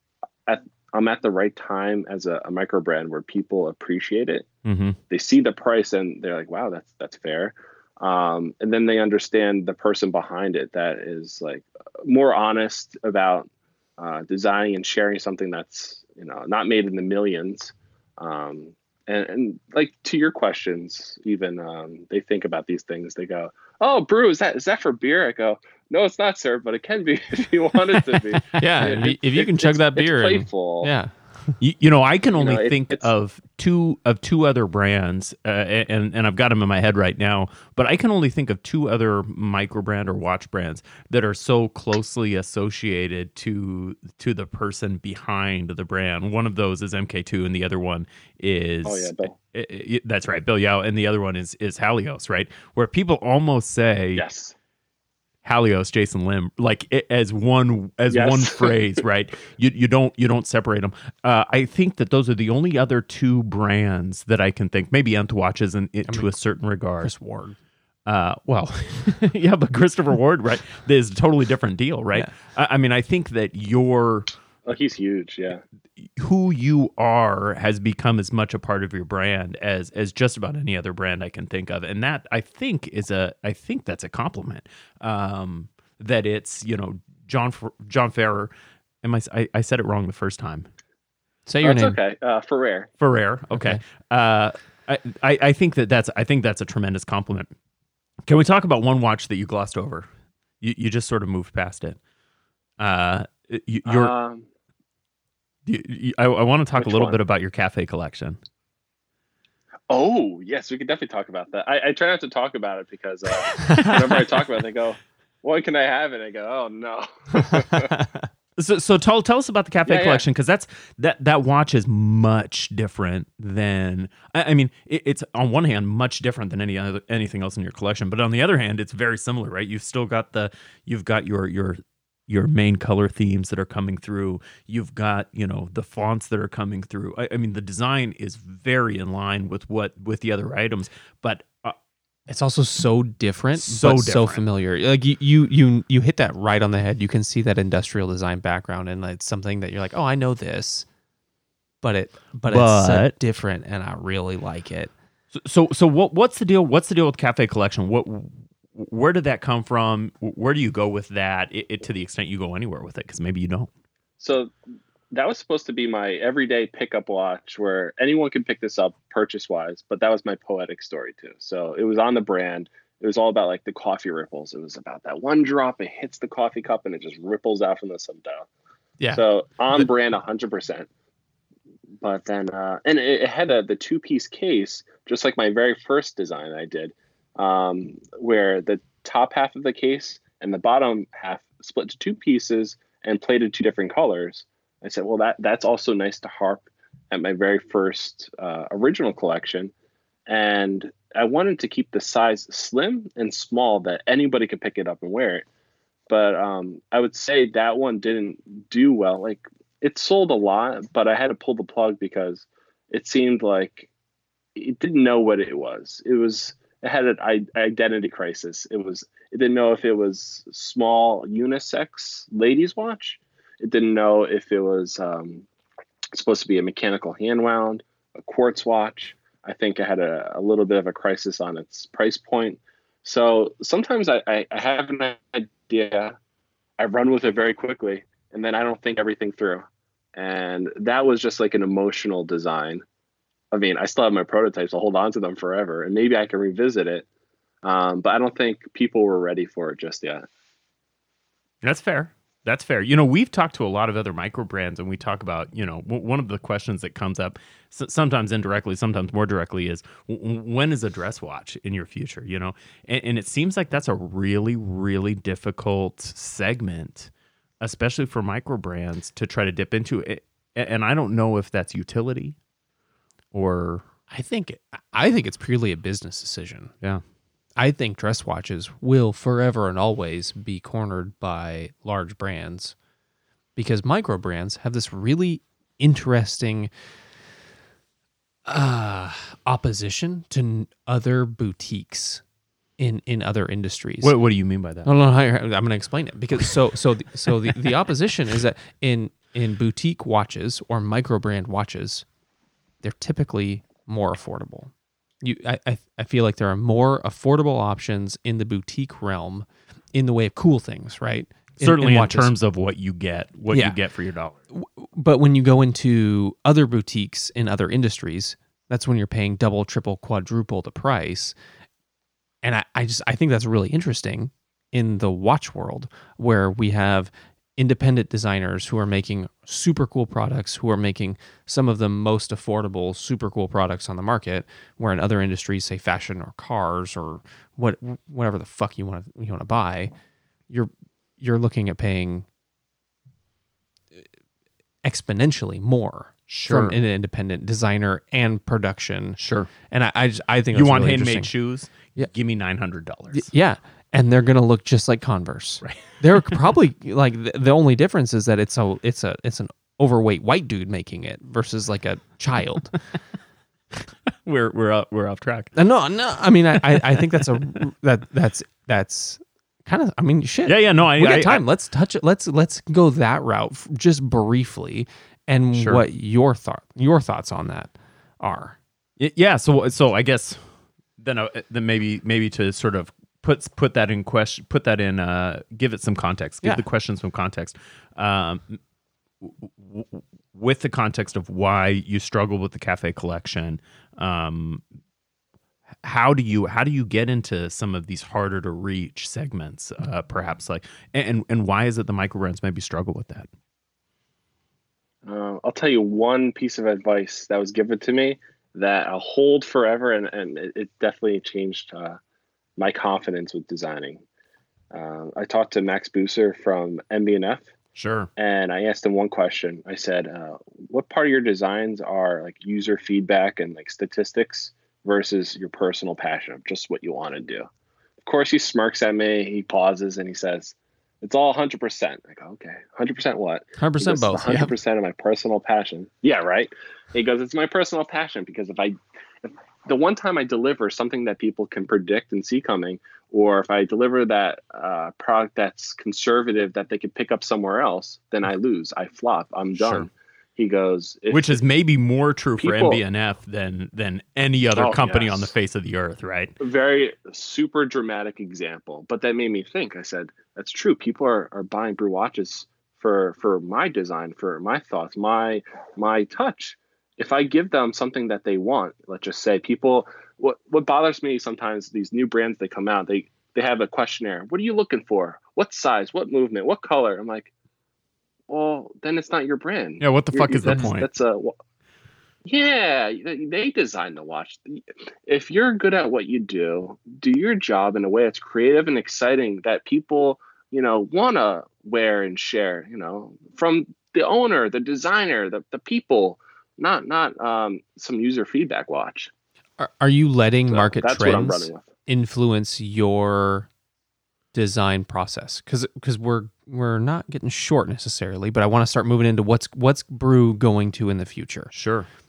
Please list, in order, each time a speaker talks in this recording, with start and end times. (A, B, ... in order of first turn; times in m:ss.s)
0:00.5-0:04.5 A
0:04.6-0:05.0 B
0:05.1-0:30.9 A
0:28.1-0:28.9 B
0:28.6-0:31.6 C
0:31.6-0:54.2 B
0:32.4-0:33.1 A
0:48.8-0:49.4 A
0:54.2-0:54.6 A
0:55.4-1:07.1 B
0:58.1-0:58.8 A
1:07.0-1:07.6 C
1:08.1-1:14.3 B
1:14.6-1:15.6 A
1:16.0-1:28.5 B
1:29.0-1:30.7 B
1:31.5-1:32.0 C
1:31.6-1:32.9 A
1:33.0-1:37.5 B
1:33.5-1:33.8 C
1:38.3-1:40.1 B
1:40.6-1:42.0 B
1:42.8-1:44.1 B
1:43.9-1:44.5 A
1:45.7-1:48.4 B
1:46.8-1:47.2 A
1:49.9-1:58.0 A
1:53.6-1:54.0 C
1:53.6-1:54.0 B
1:57.7-1:58.3 C
1:58.6-2:21.8 B
1:59.9-2:00.2 A
2:22.3-2:30.9 C
2:23.6-2:24.4 B
2:31.8-2:34.9 C
2:32.5-2:33.2 B
2:35.3-2:43.7 B
2:44.2-2:44.5 A
2:45.1-2:58.5 A
2:59.1-3:00.9 A
3:02.0-3:19.7 A
3:20.3-3:25.4 A
3:26.1-3:33.9 A
3:34.6-3:45.5 A
3:46.1-3:56.2 A
3:56.8-4:02.8 A
4:03.5-4:07.1 A
4:07.6-4:10.2 A
4:11.6-4:32.4 B
4:33.3-4:33.9 B
4:34.1-4:36.7 C
4:37.6-4:42.8 C
4:43.6-4:46.7 C
4:48.5-4:52.2 C
4:52.8-4:54.2 C
4:54.0-4:54.9 B
4:54.8-5:02.0 C
5:02.8-5:04.7 C
5:05.2-5:12.3 C
5:11.6-5:14.4 B
5:13.5-5:13.8 C
5:14.5-5:21.4 C
5:22.4-5:39.9 C
5:40.5-5:42.3 C
5:44.8-5:51.3 C
5:46.3-5:46.8 B
5:49.2-5:49.5 B
5:50.5-5:53.3 B
5:53.1-6:02.8 C
5:55.6-5:56.4 B
6:04.1-6:05.5 B
6:05.6-6:18.6 C
6:06.6-6:07.2 B
6:10.5-6:11.4 B
6:15.6-6:15.8 B
6:19.0-6:20.4 B
6:21.0-6:28.6 B
6:29.2-6:34.6 B
6:35.8-6:43.3 B
6:45.0-6:52.0 A
6:52.6-6:54.0 A
6:54.7-6:57.5 A
6:57.8-6:58.1 B
6:58.2-7:07.5 A
7:08.0-7:31.4 A
7:13.6-7:14.5 C
7:29.6-7:29.9 B
7:31.1-7:36.3 B
7:32.4-7:32.8 A
7:34.6-7:35.3 A
7:36.4-7:57.3 A
7:58.3-8:01.4 A
7:59.8-8:00.9 B
8:00.5-8:00.7 C
8:02.2-8:19.1 A
8:19.6-8:23.5 C
8:20.5-8:21.7 A
8:24.3-8:31.5 C
8:31.5-8:31.9 B